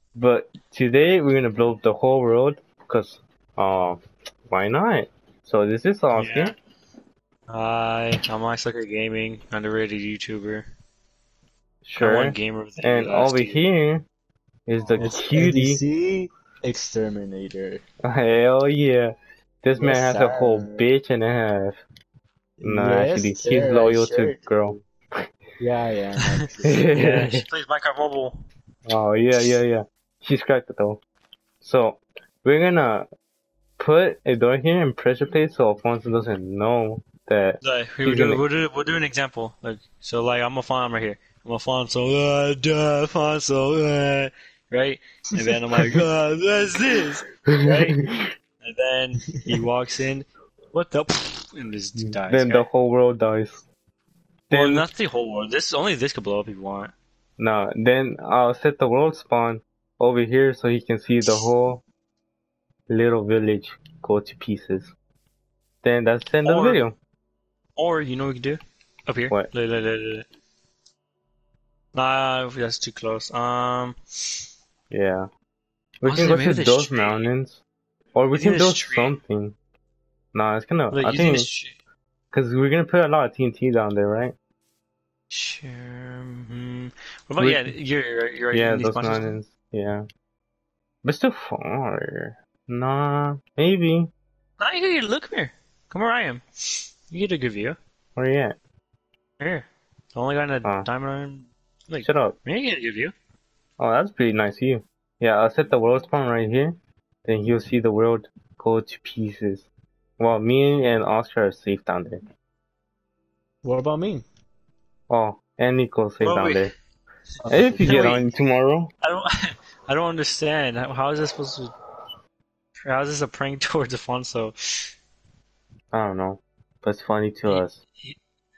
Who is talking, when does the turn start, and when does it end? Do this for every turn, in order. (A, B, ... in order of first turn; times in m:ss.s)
0:00.2-0:04.0 A
0:04.5-0:06.5 A
0:06.1-0:06.5 B
0:07.5-0:10.6 B
0:11.8-0:14.0 A
0:12.0-0:13.7 B
0:14.7-0:15.8 A
0:15.0-0:17.8 C
0:18.0-0:21.8 A
0:19.8-0:20.8 C
0:22.6-0:24.4 C
0:22.6-0:24.8 A
0:25.6-0:26.8 C
0:26.6-0:27.4 A
0:26.9-0:28.4 B
0:28.9-0:31.0 A
0:31.6-0:33.1 A
0:33.8-0:38.4 A
0:37.6-0:48.0 B
0:47.5-0:48.3 A
0:48.6-0:52.6 B
0:52.0-0:53.6 A
0:54.5-0:54.8 A
0:54.5-0:56.9 B
0:57.4-1:01.8 A
1:02.9-1:04.9 A
1:05.8-1:07.0 A
1:06.4-1:06.8 B
1:07.8-1:10.3 B
1:11.9-1:14.0 B
1:14.9-1:15.3 A
1:16.0-1:17.6 A
1:16.0-1:17.2 B
1:18.1-1:19.6 A
1:18.3-1:19.1 B
1:20.3-1:21.5 A
1:20.9-1:21.7 B
1:22.3-1:24.3 A
1:25.3-1:29.4 B
1:27.4-1:27.7 A
1:28.5-1:30.0 A
1:31.0-1:34.1 A
1:34.6-1:36.4 B
1:37.1-1:37.8 B
1:38.2-1:38.6 A
1:39.4-1:43.1 B
1:42.0-1:42.4 A
1:43.8-1:49.7 A
1:50.2-1:52.2 A
1:53.6-1:54.2 B
1:55.1-1:56.7 A
1:56.2-1:56.7 B
1:57.5-1:58.2 B
1:57.5-1:58.9 A
1:59.0-1:59.3 B
1:59.9-2:01.7 B
2:02.8-2:04.5 B
2:05.9-2:07.8 A
2:07.5-2:08.2 B